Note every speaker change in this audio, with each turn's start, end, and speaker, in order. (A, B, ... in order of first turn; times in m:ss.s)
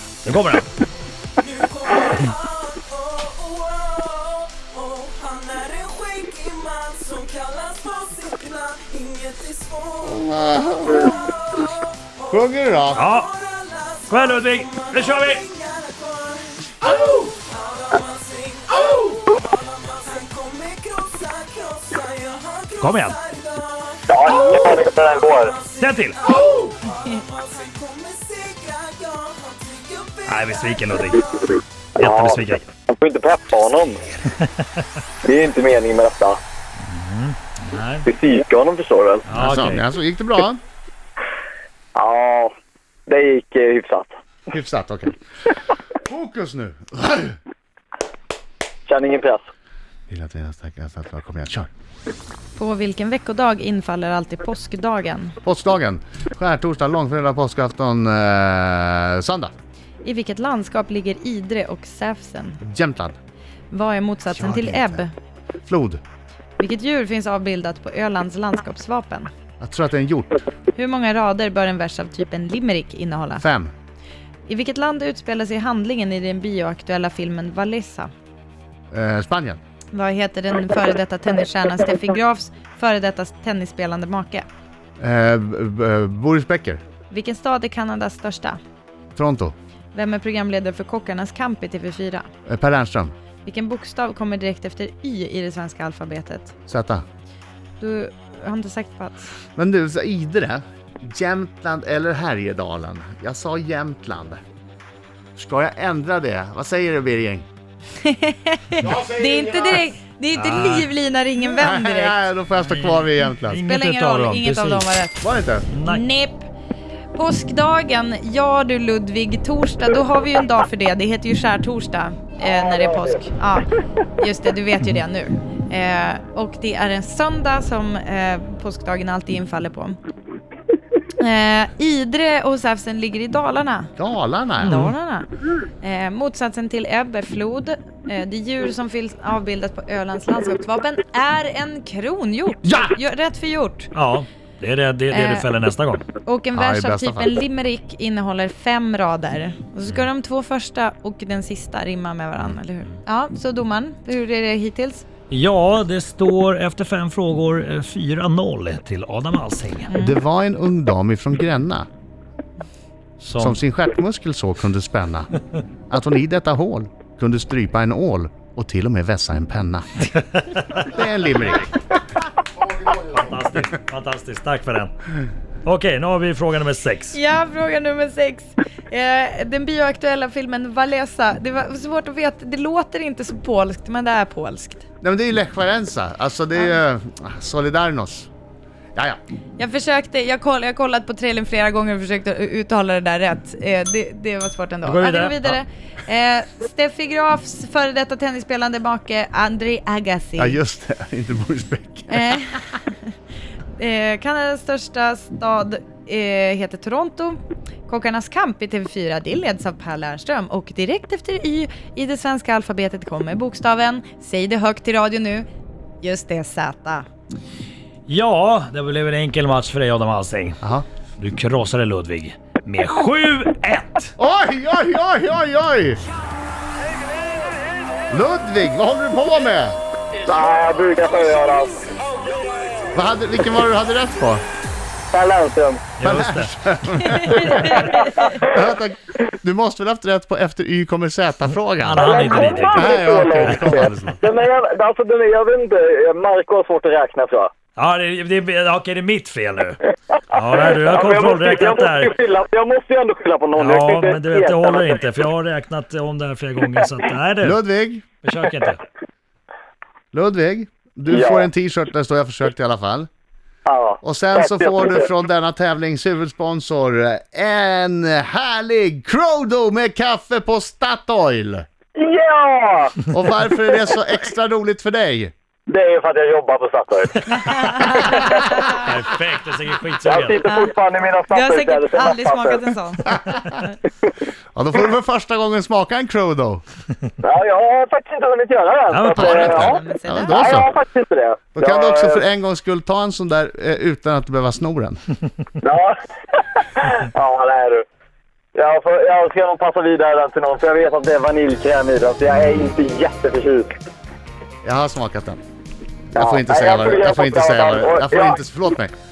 0:00.2-0:00.7 A
0:01.5-0:10.2 B
0:10.0-0:11.2 C
0:11.2-0:12.4 B
0:12.3-0:13.0 C
0:13.0-0:13.3 A
0:13.0-0:13.9 B
0:14.1-0:15.5 A
0:15.1-0:22.7 B
0:22.8-0:23.2 A
0:23.4-0:23.7 B
0:24.1-0:25.5 D
0:25.2-0:25.8 B
0:25.8-0:26.2 A
0:26.3-0:30.2 B
0:30.3-0:31.4 A
0:32.0-0:32.6 A
0:32.0-0:34.0 D
0:35.2-0:36.4 D
0:36.9-0:38.1 A
0:38.0-0:39.2 D
0:39.3-0:39.8 A
0:39.3-0:40.6 C
0:41.9-0:42.5 D
0:43.1-0:44.1 D
0:44.5-0:45.1 C
0:46.0-0:47.4 C
0:48.8-0:49.4 D
0:50.1-0:51.7 C
0:52.6-0:55.4 E
0:55.4-0:59.5 C
1:00.0-1:02.6 E
1:02.6-1:03.2 C
1:03.7-1:05.1 E
1:04.3-1:05.0 C
1:05.6-1:06.0 C
1:06.6-1:09.3 E
1:09.6-1:10.4 C
1:10.7-1:13.4 E
1:13.4-1:13.7 C
1:14.5-1:18.1 E
1:18.9-1:19.6 C
1:19.9-1:24.4 E
1:25.0-1:26.8 C
1:27.1-1:28.6 E
1:29.2-1:29.5 C
1:29.9-1:32.3 E
1:32.5-1:33.1 C
1:33.4-1:36.5 E
1:36.7-1:37.0 C
1:37.8-1:39.3 E
1:39.6-1:44.4 C
1:45.4-1:47.4 C
1:48.0-1:52.2 E
1:50.3-1:50.9 A
1:51.5-1:53.6 C
1:52.6-1:54.9 A
1:53.6-1:55.2 E
1:55.2-1:55.7 C
1:55.7-1:56.0 A
1:55.8-1:56.5 E
1:57.1-2:10.0 E
2:02.5-2:03.1 D
2:11.2-2:13.9 E
2:14.0-2:14.8 C
2:14.6-2:15.3 E
2:14.6-2:14.9 A
2:15.8-2:23.9 E
2:22.6-2:23.0 C
2:23.9-2:26.0 A
2:25.1-2:25.4 E
2:26.2-2:35.0 E
2:26.5-2:27.4 C
2:35.3-2:39.9 A
2:39.9-2:40.2 E
2:40.0-2:41.9 C
2:43.2-2:43.6 A
2:43.4-2:45.3 C
2:45.9-2:50.1 C
2:50.8-2:51.8 C
2:53.0-2:54.9 A
2:55.6-2:57.2 A
2:57.1-3:04.8 E
3:05.0-3:08.3 C
3:09.6-3:20.6 E
3:14.8-3:15.6 A
3:20.4-3:22.4 C
3:22.1-3:22.9 E
3:23.8-3:35.5 E
3:36.0-3:37.0 E
3:38.1-3:40.6 A
3:41.2-3:44.1 A
3:44.2-3:46.0 C
3:48.1-3:49.8 C
3:50.2-3:52.0 D
3:52.9-3:54.4 C
3:55.1-3:55.9 D
3:56.0-3:56.5 A
3:56.0-4:04.2 C
3:57.0-3:58.3 E
4:01.8-4:03.9 A
4:02.0-4:07.5 D
4:07.8-4:12.1 A
4:10.6-4:15.0 D
4:13.5-4:17.6 A
4:17.4-4:18.0 C
4:18.2-4:18.8 A
4:20.1-4:23.1 C
4:21.1-4:21.5 D
4:23.6-4:25.0 D
4:24.0-4:31.6 C
4:32.0-4:33.0 D
4:33.1-4:35.3 C
4:35.7-4:38.2 D
4:37.4-4:38.8 E
4:38.6-4:40.4 A
4:40.0-4:42.6 D
4:40.5-4:40.7 E
4:41.3-4:43.7 E
4:44.5-4:46.6 C
4:47.2-4:49.8 D
4:48.9-4:49.6 A
4:49.2-4:50.7 C
4:49.5-4:50.4 E
4:50.3-4:52.2 D
4:51.5-4:55.0 C
4:55.6-4:57.8 D
4:58.5-5:03.7 D
5:04.6-5:05.4 C
5:06.1-5:08.4 D
5:06.1-5:08.9 C